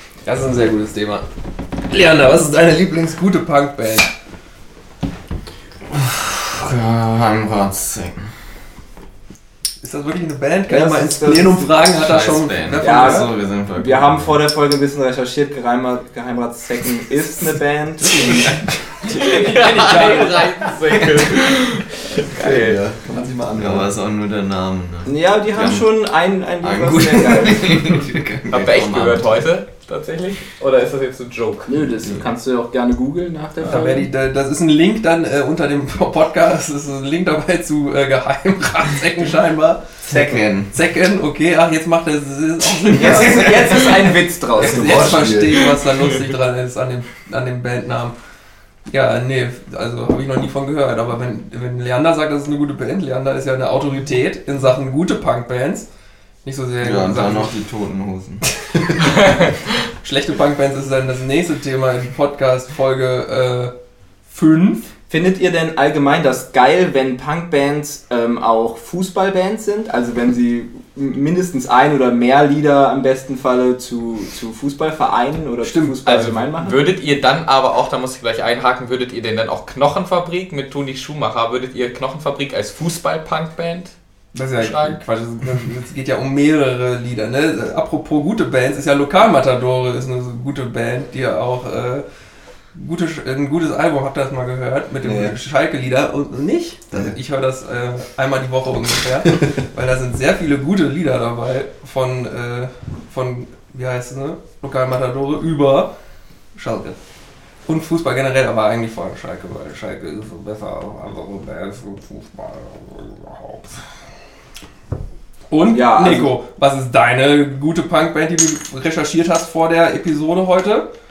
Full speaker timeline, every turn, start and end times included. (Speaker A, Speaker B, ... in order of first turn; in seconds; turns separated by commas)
Speaker A: 0.2-1.2, Speaker A: 1.9-4.1, Speaker B: 5.9-8.3, Speaker A: 9.8-13.3, Speaker C: 10.7-11.7, Speaker B: 11.9-14.4, Speaker C: 12.8-19.4, Speaker A: 19.1-20.5, Speaker D: 19.2-22.4, Speaker E: 22.3-23.9, Speaker C: 22.4-22.8, Speaker B: 23.6-26.0, Speaker C: 25.1-28.0, Speaker B: 26.6-29.4, Speaker D: 28.5-31.7, Speaker C: 31.6-34.1, Speaker A: 33.6-40.0, Speaker B: 40.1-40.7, Speaker C: 40.1-40.4, Speaker A: 40.7-44.0, Speaker C: 42.9-45.3, Speaker A: 44.5-48.1, Speaker E: 44.5-45.7, Speaker A: 48.9-55.9, Speaker A: 56.4-57.5, Speaker B: 56.8-58.5, Speaker A: 60.0-63.7, Speaker A: 64.3-64.9, Speaker C: 65.1-76.8, Speaker A: 75.6-76.0, Speaker D: 76.0-83.9, Speaker A: 84.3-92.0, Speaker D: 84.6-85.0, Speaker A: 92.7-105.9, Speaker E: 95.0-95.3, Speaker A: 106.5-107.0, Speaker A: 107.7-113.7, Speaker A: 115.5-120.9, Speaker C: 115.7-116.3